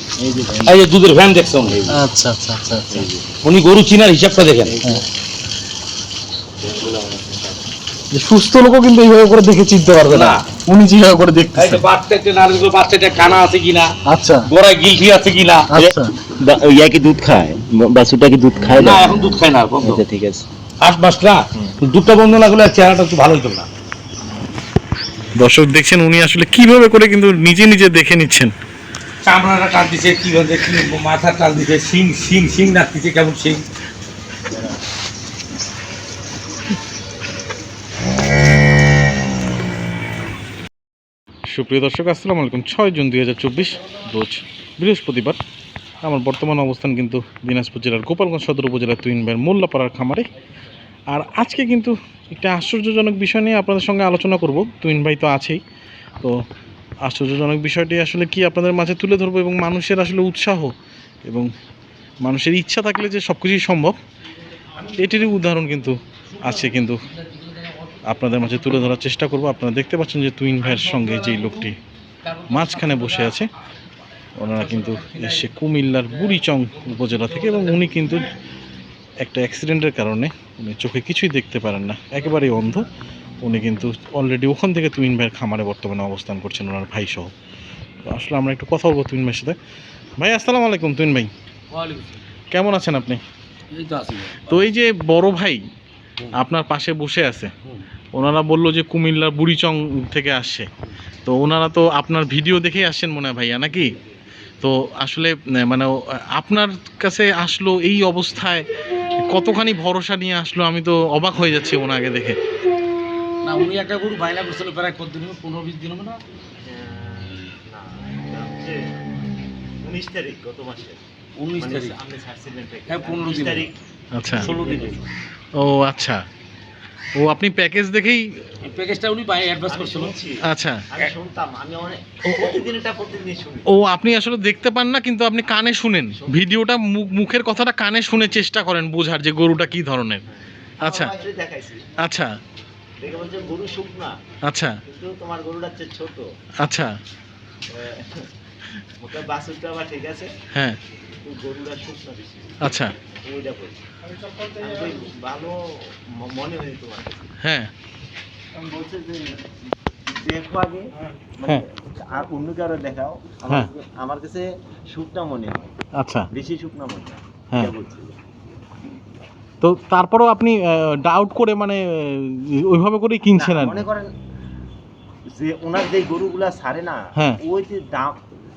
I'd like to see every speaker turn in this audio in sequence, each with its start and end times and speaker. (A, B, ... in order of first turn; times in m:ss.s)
0:00.2-0:00.8 A
0:00.7-0:01.8 B
0:01.7-0:02.0 A
0:01.9-0:03.1 C
0:02.9-0:03.3 A
0:03.4-0:04.8 B
0:04.7-0:05.0 A
0:06.7-0:07.2 A
0:08.1-0:11.8 C
0:10.1-0:10.4 B
0:11.6-0:13.9 B
0:14.1-0:14.5 C
0:14.5-0:15.7 B
0:15.7-0:16.1 C
0:15.8-0:19.1 A
0:18.8-0:20.0 B
0:19.8-0:20.5 A
0:20.8-0:23.7 B
0:25.4-0:28.5 C
0:29.3-0:33.6 B
0:34.5-0:34.8 A
0:41.5-0:45.4 C
0:46.0-0:50.3 C
0:51.1-0:55.6 C
0:57.0-1:00.7 C
1:01.2-1:01.5 C
1:02.2-1:04.0 C
1:04.8-1:07.0 C
1:06.3-1:08.5 B
1:08.1-1:11.8 C
1:10.6-1:11.7 B
1:12.2-1:13.5 B
1:12.5-1:13.5 C
1:14.4-1:18.3 C
1:14.6-1:15.5 B
1:16.1-1:18.3 B
1:19.2-1:22.9 C
1:23.4-1:27.3 C
1:28.1-1:29.6 C
1:30.2-1:31.3 C
1:31.7-1:32.3 B
1:32.5-1:33.2 C
1:33.7-1:34.7 B
1:34.5-1:35.6 C
1:36.3-1:37.5 C
1:38.1-1:40.7 C
1:41.3-1:43.9 C
1:44.6-1:48.7 C
1:49.2-1:52.4 C
1:53.4-1:56.2 B
1:56.6-1:58.9 A
1:59.8-2:01.0 A
2:01.4-2:02.0 B
2:01.6-2:03.8 A
2:02.9-2:03.7 B
2:04.2-2:04.5 C
2:04.3-2:05.0 A
2:04.3-2:05.0 B
2:05.6-2:06.2 C
2:07.2-2:08.3 C
2:08.6-2:10.1 B
2:09.7-2:13.7 A
2:10.4-2:10.8 C
2:12.3-2:12.6 C
2:13.7-2:20.2 C
2:16.1-2:16.4 A
2:20.3-2:21.9 A
2:20.8-2:21.1 C
2:22.0-2:22.3 C
2:23.0-2:24.1 A
2:24.5-2:24.8 C
2:24.9-2:26.2 A
2:26.6-2:27.0 C
2:27.7-2:28.3 A
2:29.0-2:30.3 A
2:30.5-2:30.8 C
2:31.2-2:32.7 A
2:32.6-2:32.9 C
2:33.2-2:33.8 A
2:34.4-2:37.3 A
2:37.4-2:37.7 C
2:38.6-2:39.4 A
2:40.2-2:45.7 A
2:46.0-2:46.3 C
2:46.3-2:48.2 A
2:49.6-2:53.8 C
2:53.4-2:54.1 A
2:55.3-2:58.2 A